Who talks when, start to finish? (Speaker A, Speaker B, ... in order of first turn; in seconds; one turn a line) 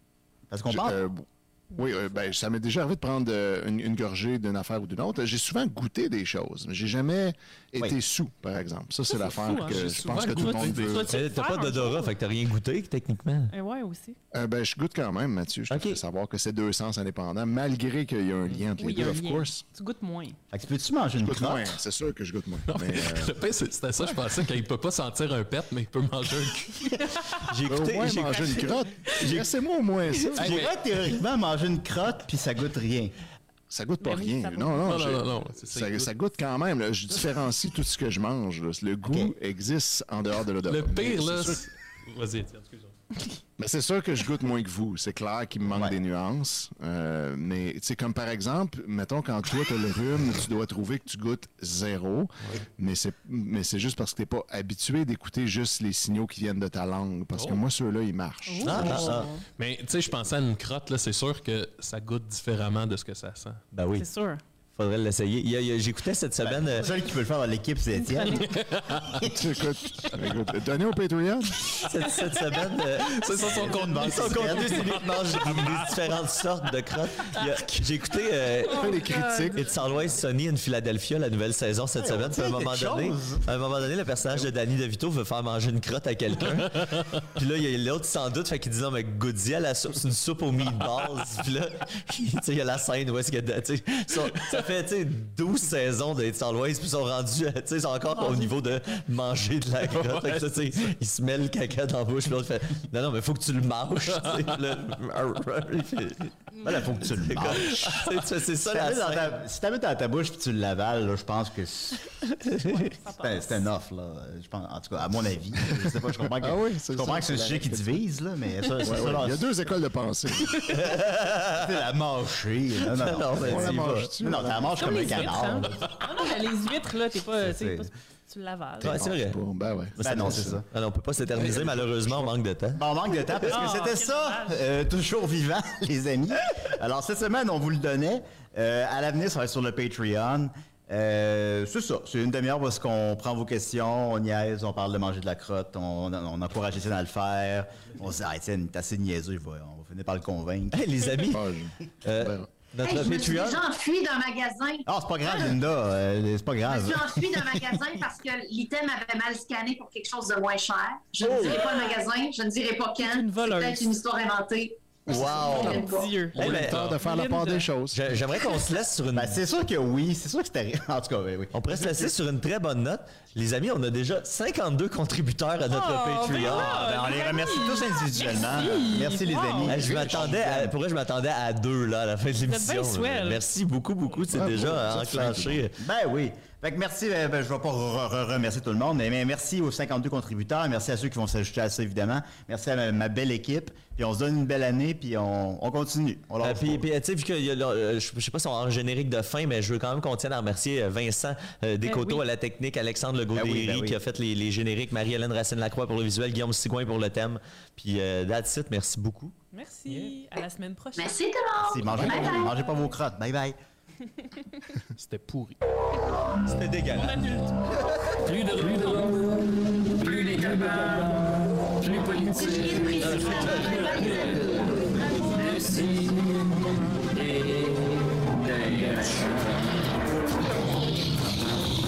Speaker A: 0.5-1.0
Speaker B: 0.7-11.1
Speaker C: 9.1-12.1
Speaker D: 9.6-11.1
Speaker E: 11.1-13.5
Speaker C: 13.5-14.2
Speaker B: 14.3-19.6
Speaker E: 15.7-16.0
Speaker C: 18.8-20.4
Speaker A: 20.5-21.7
Speaker B: 21.2-23.4
Speaker D: 22.7-27.0
Speaker E: 27.4-29.5
Speaker B: 27.7-30.6
Speaker A: 30.4-33.1
Speaker D: 30.4-30.7
Speaker B: 33.7-41.6
Speaker C: 34.0-35.1
Speaker D: 34.8-36.1
Speaker A: 39.0-39.3
Speaker D: 40.7-43.0
Speaker B: 43.6-59.0
Speaker A: 45.7-45.9
Speaker D: 57.3-57.6
Speaker C: 58.5-59.4
Speaker E: 58.6-59.3
Speaker D: 58.8-63.6
Speaker E: 63.7-64.1
Speaker C: 63.9-64.4
Speaker E: 64.8-66.9
Speaker A: 66.4-68.5
Speaker C: 68.1-68.4
Speaker D: 68.3-69.3
Speaker B: 69.2-71.6
Speaker E: 71.8-109.4
Speaker D: 73.0-76.2
Speaker A: 73.3-75.0
Speaker D: 77.3-77.7
Speaker C: 78.7-79.7
Speaker B: 78.7-79.8
Speaker A: 82.0-83.5
Speaker D: 86.4-87.2
Speaker D: 94.3-94.6
Speaker C: 98.2-98.5
Speaker D: 99.8-100.9
Speaker D: 104.1-104.8
Speaker A: 106.6-108.0
Speaker A: 108.7-112.0
Speaker C: 112.5-113.6
Speaker A: 113.2-119.5
Speaker B: 115.8-117.9
Speaker B: 118.8-120.7
Speaker E: 120.7-121.8
Speaker A: 120.9-125.8
Speaker E: 122.9-124.1
Speaker B: 123.3-125.1
Speaker C: 124.8-129.1
Speaker A: 127.4-127.9
Speaker E: 128.8-129.4
Speaker B: 128.8-130.6
Speaker A: 130.0-130.7
Speaker E: 130.0-133.7
Speaker B: 131.3-132.2
Speaker A: 132.7-151.0
Speaker C: 133.5-134.6
Speaker E: 150.7-151.4
Speaker B: 151.3-152.5
Speaker E: 152.0-153.6
Speaker F: 152.8-155.5
Speaker A: 154.8-157.8
Speaker F: 156.7-166.2
Speaker E: 161.2-161.8
Speaker C: 163.0-163.9
Speaker E: 165.1-166.9
Speaker B: 165.1-165.7
Speaker C: 165.2-167.7
Speaker B: 166.3-168.0
Speaker D: 166.4-167.0
Speaker E: 167.9-169.4
Speaker A: 169.1-172.1
Speaker E: 171.5-176.8
Speaker C: 175.7-179.7
Speaker A: 176.3-180.7
Speaker E: 179.7-185.8
Speaker B: 179.8-180.3
Speaker C: 182.5-183.4
Speaker B: 184.3-185.6
Speaker A: 185.8-196.8
Speaker E: 196.4-209.3
Speaker C: 201.8-202.2
Speaker A: 203.3-204.0
Speaker C: 209.5-211.2
Speaker D: 209.9-210.2
Speaker F: 210.9-212.5
Speaker A: 211.6-213.6
Speaker C: 212.3-212.8
Speaker D: 214.9-215.6
Speaker E: 216.4-218.2
Speaker C: 216.9-217.8
Speaker G: 218.2-229.7
Speaker F: 222.3-225.4
Speaker E: 223.0-223.9